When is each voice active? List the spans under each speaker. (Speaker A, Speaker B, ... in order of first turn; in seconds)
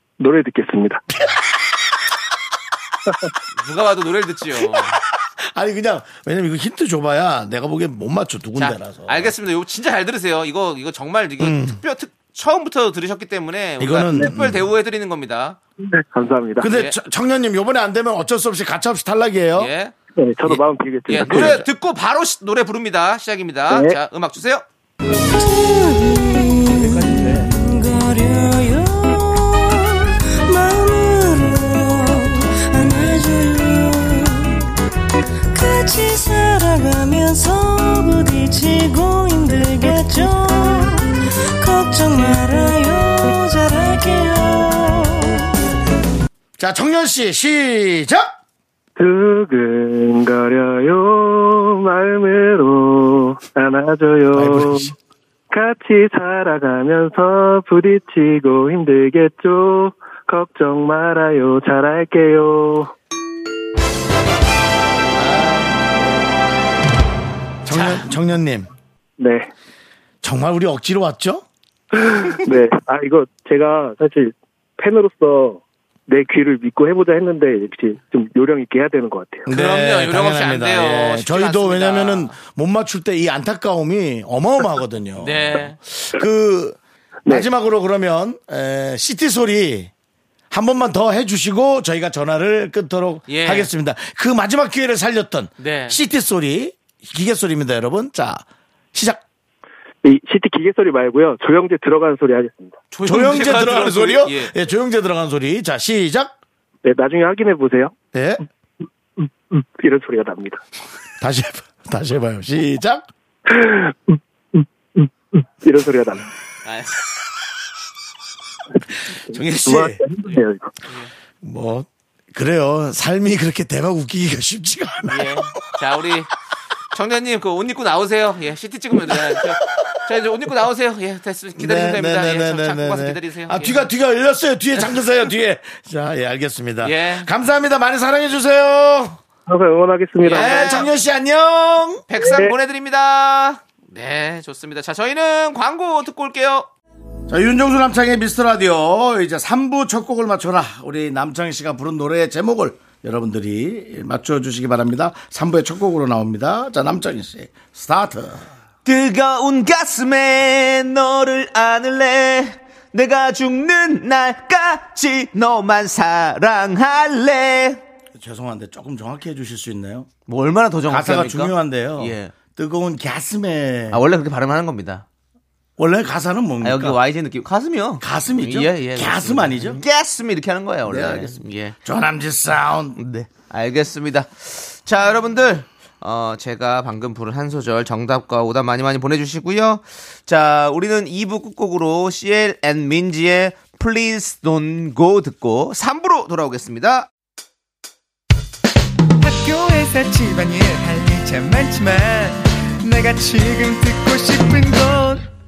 Speaker A: 0.2-1.0, 15.8-16.7, 20.2-21.6, 23.7-24.0, 49.0-54.9, 55.5-62.9, 69.2-69.5, 71.9-79.5, 100.0-102.8, 106.8-107.9, 109.2-110.6, 113.5-116.3, 119.3-120.7, 139.5-140.9, 142.2-142.6
Speaker B: 1.1-1.5, 4.6-9.3, 11.4-11.8, 13.8-14.7, 16.6-19.7, 21.2-21.7, 26.8-27.5, 46.6-48.4, 54.3-54.9, 65.2-65.7, 67.6-68.7, 70.2-71.4, 79.5-89.9, 90.5-99.2, 103.0-106.3, 108.1-108.4, 111.2-113.1, 119.3-120.0, 121.4-125.8, 129.0-129.9, 131.6-139.2, 140.3-142.1, 147.3-158.4, 168.2-170.1, 170.9-174.0, 175.8-177.0, 178.0-179.8, 180.9-183.0
Speaker C: 3.5-5.0, 8.6-15.6, 16.7-16.9, 19.6-19.9, 20.5-24.6, 67.7-68.1, 79.5-82.3, 85.2-85.8, 93.3-93.7, 95.6-96.0, 102.9-104.5, 116.7-117.0, 120.9-121.1, 125.1-126.3, 126.9-133.9, 136.8-137.3, 140.2-140.9, 142.1-146.7, 158.8-167.8, 170.3-172.3, 173.9-175.1, 176.6-181.8, 183.0-197.1
Speaker D: 25.1-34.8, 35.5-45.6
Speaker E: 199.2-205.3